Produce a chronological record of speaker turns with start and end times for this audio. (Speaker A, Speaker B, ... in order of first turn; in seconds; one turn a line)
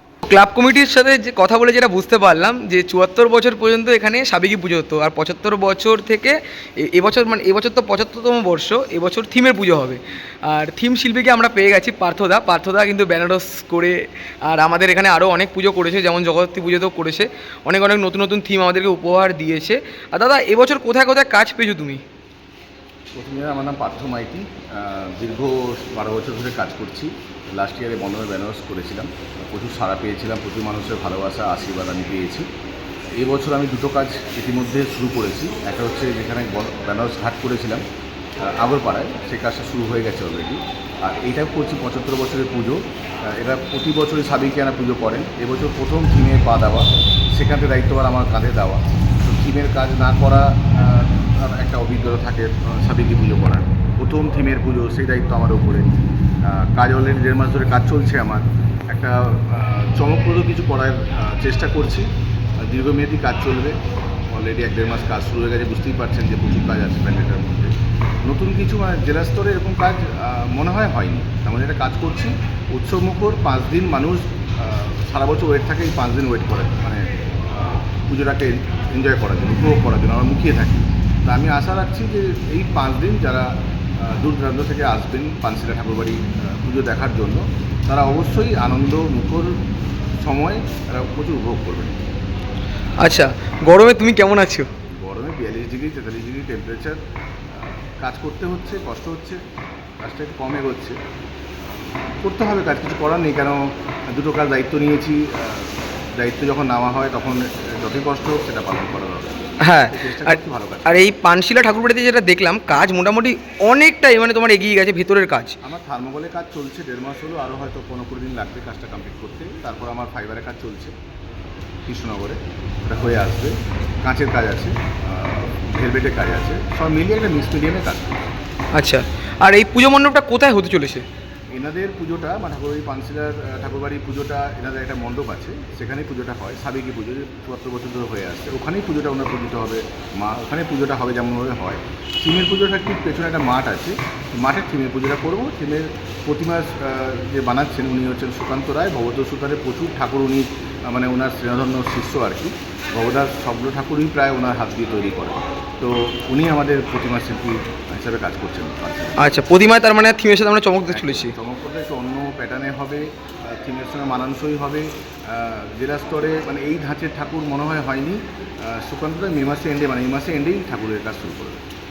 Speaker A: 0.2-22.0
Speaker B: 23.1-32.5
Speaker B: 33.2-37.8
Speaker B: 38.4-55.9
Speaker B: 56.4-62.1
Speaker B: 62.6-63.8
Speaker B: 64.3-89.6
Speaker B: 90.2-92.0
Speaker A: 93.0-94.7
Speaker B: 94.9-99.4
Speaker B: 100.0-101.0
Speaker B: 101.6-111.1
Speaker A: 109.6-115.6
Speaker B: 115.6-120.9
Speaker B: 121.9-128.2
Speaker A: 128.7-131.1
Speaker B: 131.5-159.2
Speaker A: 159.2-161.3
Speaker B: 160.9-171.6